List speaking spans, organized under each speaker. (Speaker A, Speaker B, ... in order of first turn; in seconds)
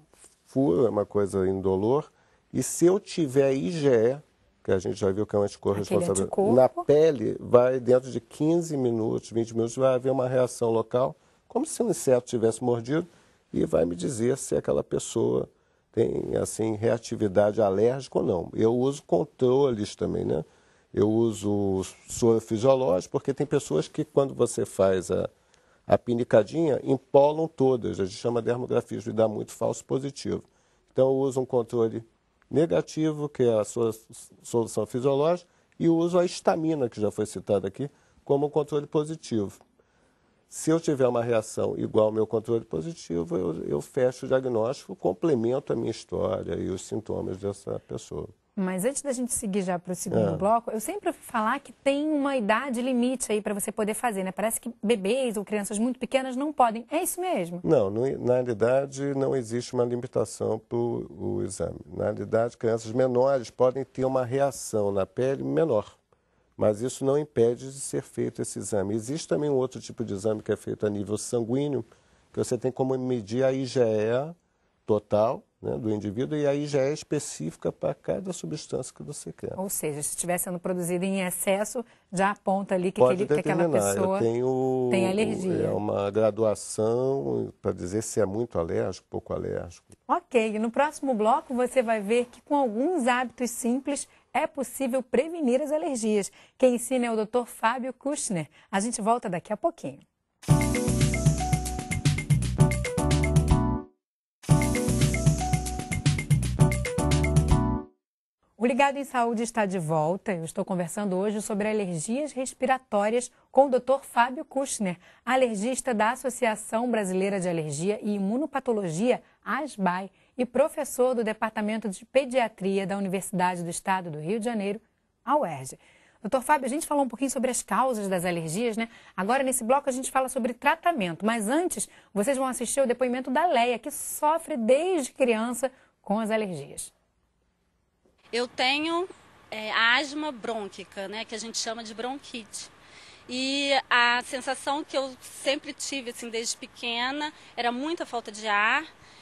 Speaker A: 0.5-25.3, 25.9-39.6, 40.5-48.3, 50.1-50.5, 57.6-66.0, 66.6-74.3, 74.9-79.6, 83.0-89.9
Speaker B: 5.7-6.9, 48.6-57.6, 79.6-84.3, 84.9-85.8, 90.1-100.0, 108.6-136.9
Speaker C: 138.3-142.7, 143.3-148.9